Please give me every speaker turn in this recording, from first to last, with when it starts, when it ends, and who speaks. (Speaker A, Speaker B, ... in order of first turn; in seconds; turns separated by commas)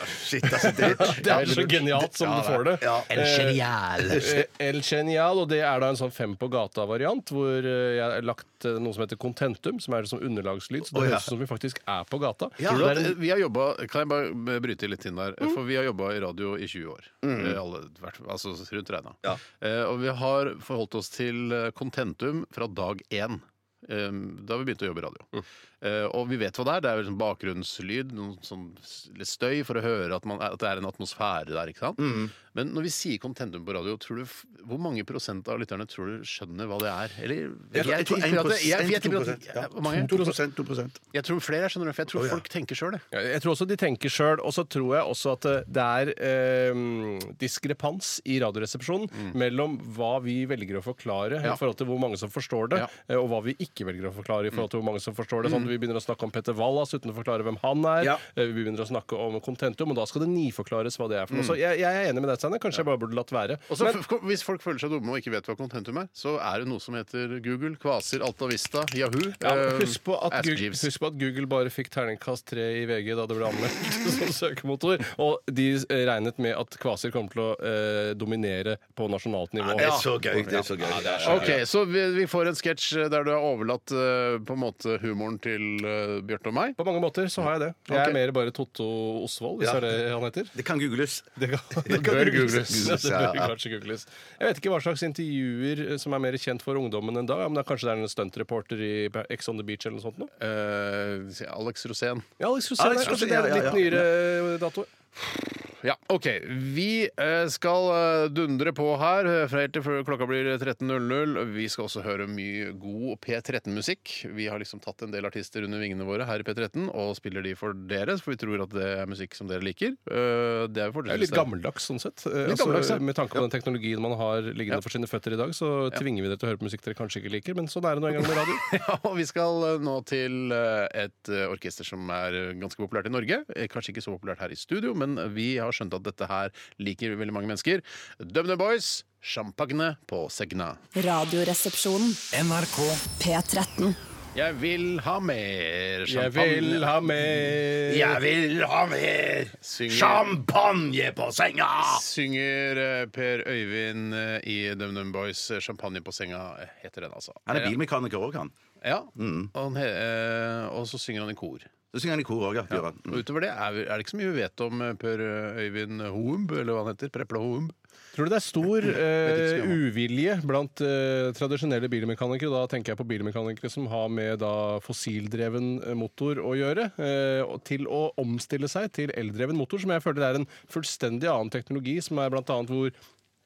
Speaker A: 0.1-1.6, Speaker B: 0.6-13.1, Speaker C: 0.8-4.4, Speaker A: 2.8-3.1, Speaker A: 10.9-11.3, Speaker A: 12.6-13.0, Speaker C: 12.7-40.3, Speaker A: 17.2-17.6, Speaker A: 32.0-32.3, Speaker A: 37.7-41.0, Speaker C: 41.1-43.0, Speaker A: 42.1-42.4, Speaker B: 43.1-64.0, Speaker C: 55.4-55.7, Speaker C: 63.7-70.9, Speaker B: 69.4-81.5, Speaker A: 79.7-81.6, Speaker C: 79.8-80.6, Speaker C: 81.2-86.8, Speaker B: 86.8-90.5, Speaker C: 87.9-88.2, Speaker A: 89.6-90.0, Speaker A: 90.5-93.5, Speaker B: 91.4-100.3, Speaker C: 91.9-92.9, Speaker C: 100.4-102.3, Speaker B: 102.4-104.9, Speaker A: 102.8-104.0, Speaker C: 105.2-121.5, Speaker B: 121.1-128.6, Speaker C: 122.4-123.0, Speaker C: 128.6-140.8, Speaker D: 140.9-142.2, Speaker A: 142.6-143.0, Speaker D: 143.0-143.9, Speaker C: 144.3-147.1, Speaker B: 146.1-148.2, Speaker A: 147.9-152.0, Speaker C: 149.6-150.4, Speaker C: 151.8-157.7, Speaker A: 157.5-158.5, Speaker C: 158.8-161.7, Speaker A: 159.2-159.5, Speaker A: 161.9-163.2, Speaker C: 162.7-167.7, Speaker B: 168.1-182.9, Speaker C: 169.2-169.8